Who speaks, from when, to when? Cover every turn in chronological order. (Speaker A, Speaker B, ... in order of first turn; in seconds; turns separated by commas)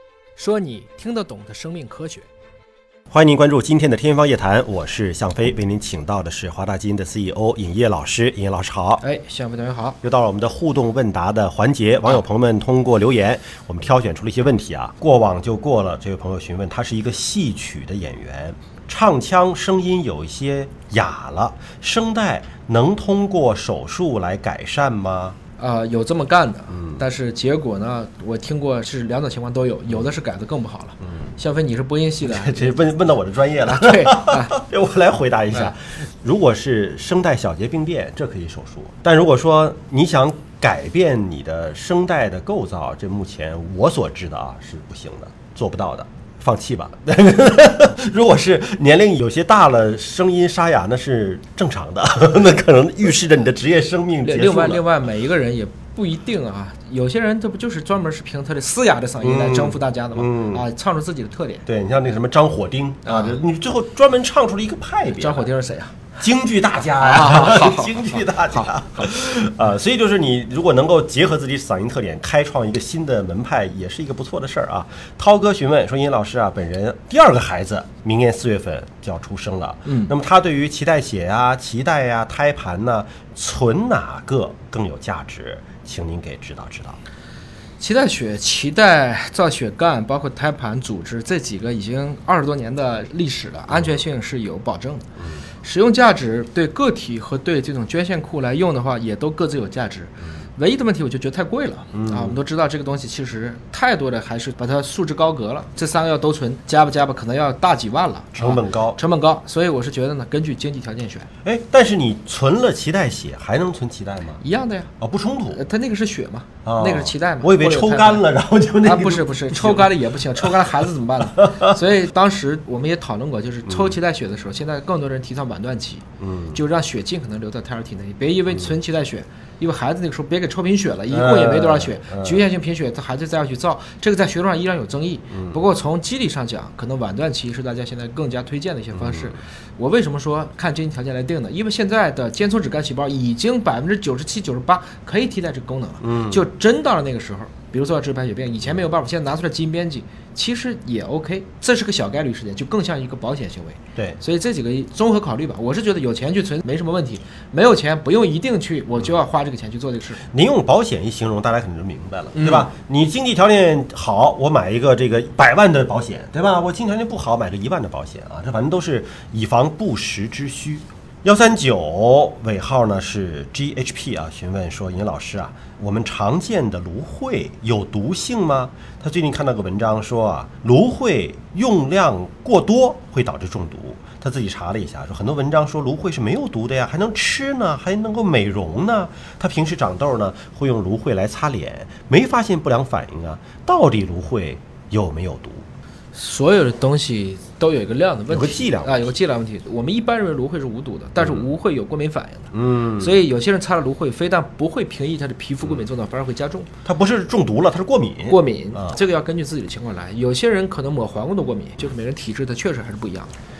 Speaker A: 0.3-2.3, Speaker B: 3.1-9.0, Speaker A: 9.0-10.0, Speaker B: 10.0-25.4, Speaker A: 25.6-32.8, Speaker B: 26.7-27.0, Speaker B: 32.2-54.8, Speaker A: 33.6-34.6, Speaker A: 54.2-61.6, Speaker B: 59.2-60.6, Speaker B: 61.6-65.5, Speaker A: 63.0-63.4, Speaker A: 65.2-65.9, Speaker B: 66.2-87.0, Speaker A: 67.0-69.1, Speaker A: 79.8-80.1, Speaker A: 87.8-95.0, Speaker B: 93.7-94.0, Speaker B: 95.2-95.4, Speaker A: 95.6-111.3, Speaker B: 101.9-102.4, Speaker B: 108.3-109.0, Speaker B: 111.4-114.4, Speaker A: 114.4-114.9, Speaker B: 115.0-115.6, Speaker A: 115.5-118.2, Speaker B: 116.6-120.8, Speaker A: 118.8-160.2, Speaker B: 121.4-121.7, Speaker B: 123.7-123.9, Speaker B: 126.2-126.6, Speaker B: 131.1-132.4, Speaker B: 135.3-135.6, Speaker B: 138.9-139.3, Speaker B: 146.0-146.4, Speaker B: 160.3-195.7, Speaker A: 162.3-162.7, Speaker A: 196.1-206.7, Speaker B: 198.3-199.1, Speaker B: 201.2-201.4, Speaker B: 202.5-203.2, Speaker B: 206.8-208.9, Speaker A: 208.3-213.3